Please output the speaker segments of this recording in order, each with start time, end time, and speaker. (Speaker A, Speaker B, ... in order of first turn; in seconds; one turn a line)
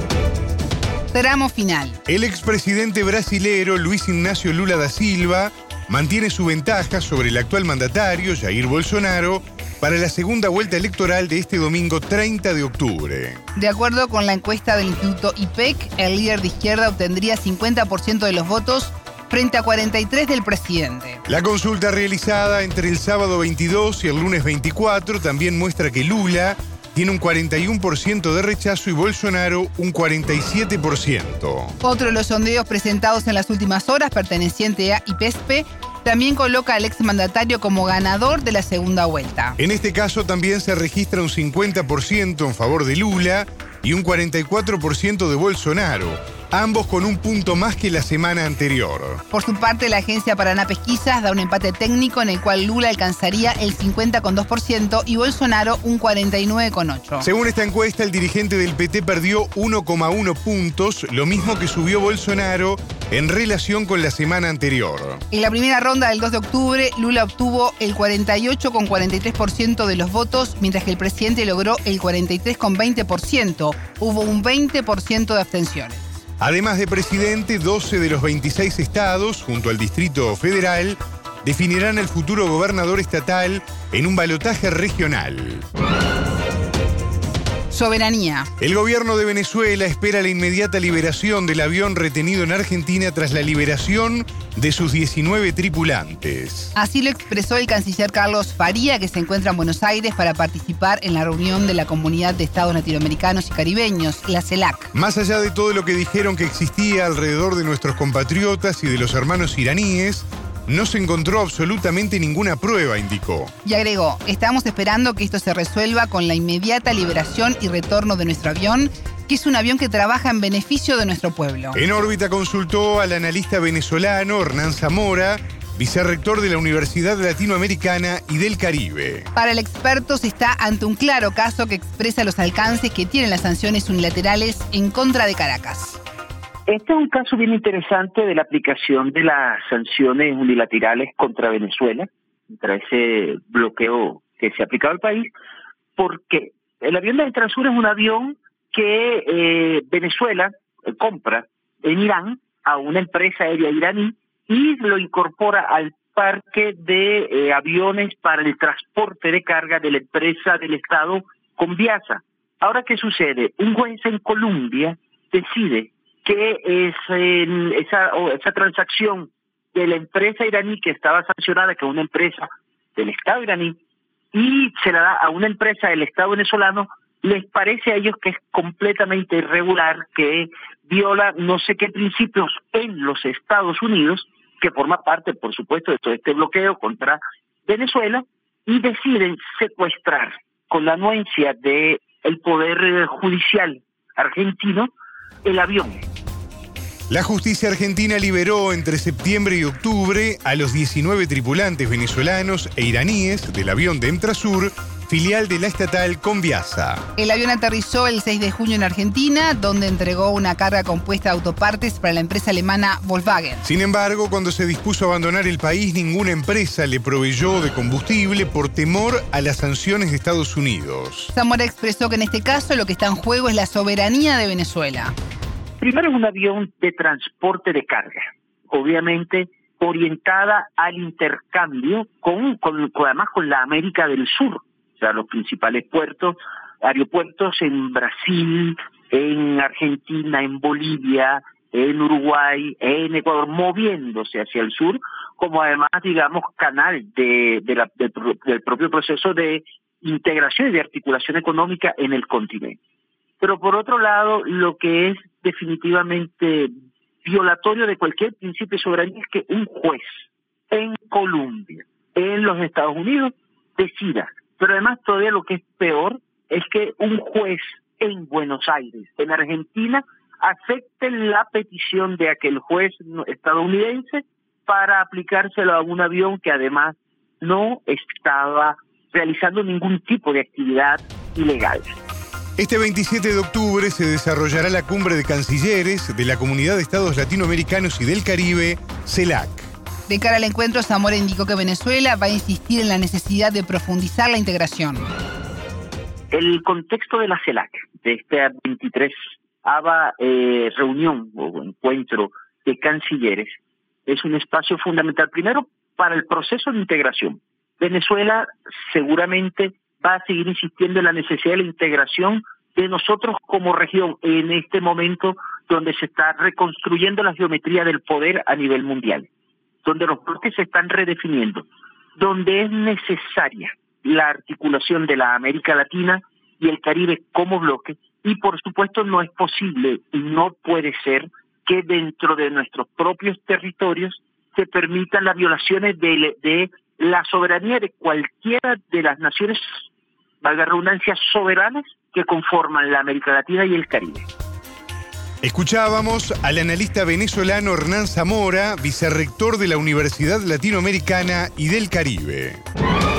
Speaker A: 1.1-2.0
Speaker B: 2.1-13.4
Speaker A: 13.6-21.2
Speaker B: 21.3-31.8
Speaker A: 31.8-39.6
Speaker B: 39.6-49.2
Speaker A: 49.3-57.3
Speaker B: 57.2-65.2
Speaker A: 65.3-76.2
Speaker B: 76.4-85.7
Speaker A: 87.7-88.5
Speaker B: 88.6-96.7
Speaker A: 96.8-104.9
Speaker B: 104.9-113.5
Speaker A: 113.7-121.8
Speaker B: 121.7-129.3
Speaker A: 129.3-136.0
Speaker C: 136.7-145.3
Speaker C: 146.0-173.8
Speaker C: 174.3-194.9
Speaker C: 195.4-196.1
Speaker B: 197.1-207.1
Speaker A: 207.2-213.7
Speaker B: 213.7-221.3
Speaker A: 221.3-225.2
Speaker C: 225.8-252.8
Speaker C: 253.4-282.0
Speaker B: 282.6-289.7
Speaker A: 290.1-295.1
Speaker C: 296.3-319.3
Speaker C: 319.8-339.8
Speaker C: 340.4-344.3
Speaker B: 345.4-352.6